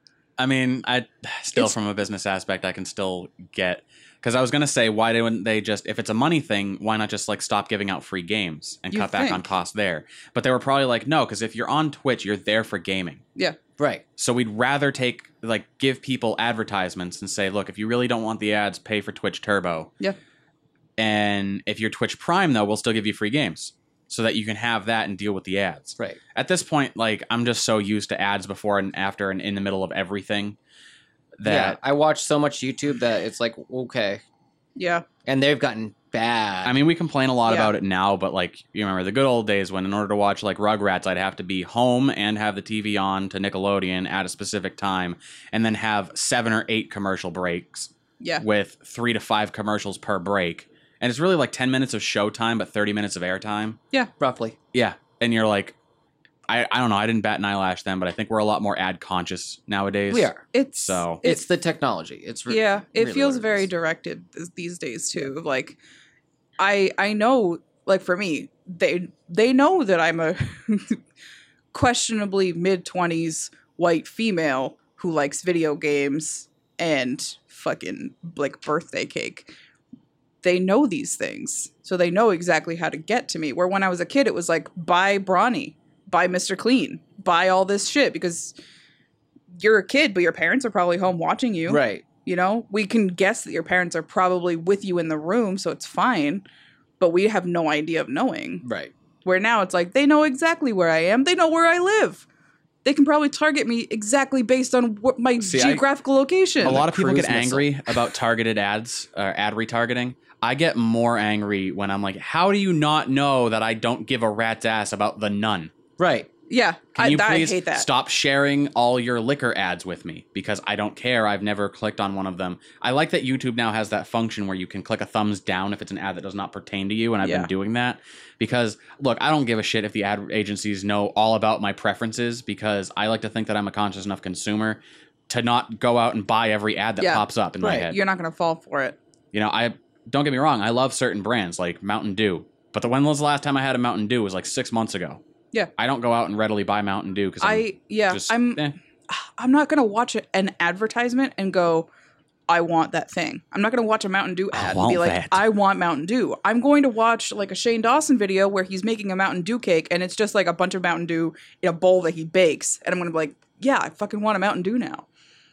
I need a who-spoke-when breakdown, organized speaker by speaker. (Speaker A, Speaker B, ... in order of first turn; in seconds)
Speaker A: 0.4-13.2, 14.2-19.9, 21.0-30.6, 31.4-31.8, 36.6-53.8, 54.7-55.7, 56.5-61.2, 105.4-105.8, 106.6-115.7, 117.0-138.0, 139.3-145.2, 145.8-148.7, 154.5-155.4
Speaker B: 8.9-9.4, 34.8-35.0, 37.5-37.7, 60.5-61.4, 62.5-65.8, 66.6-71.0, 71.7-79.5, 80.4-88.5, 89.6-96.4, 97.0-98.6, 99.2-102.2, 102.8-106.8, 116.5-117.8, 127.2-127.5, 137.0-138.9, 147.4-151.9, 152.5-165.0
Speaker C: 13.8-14.0, 31.4-34.2, 35.2-36.7, 54.2-54.5, 60.1-60.4, 61.2-63.7, 91.7-92.0, 98.6-98.9, 106.6-107.7, 116.0-116.3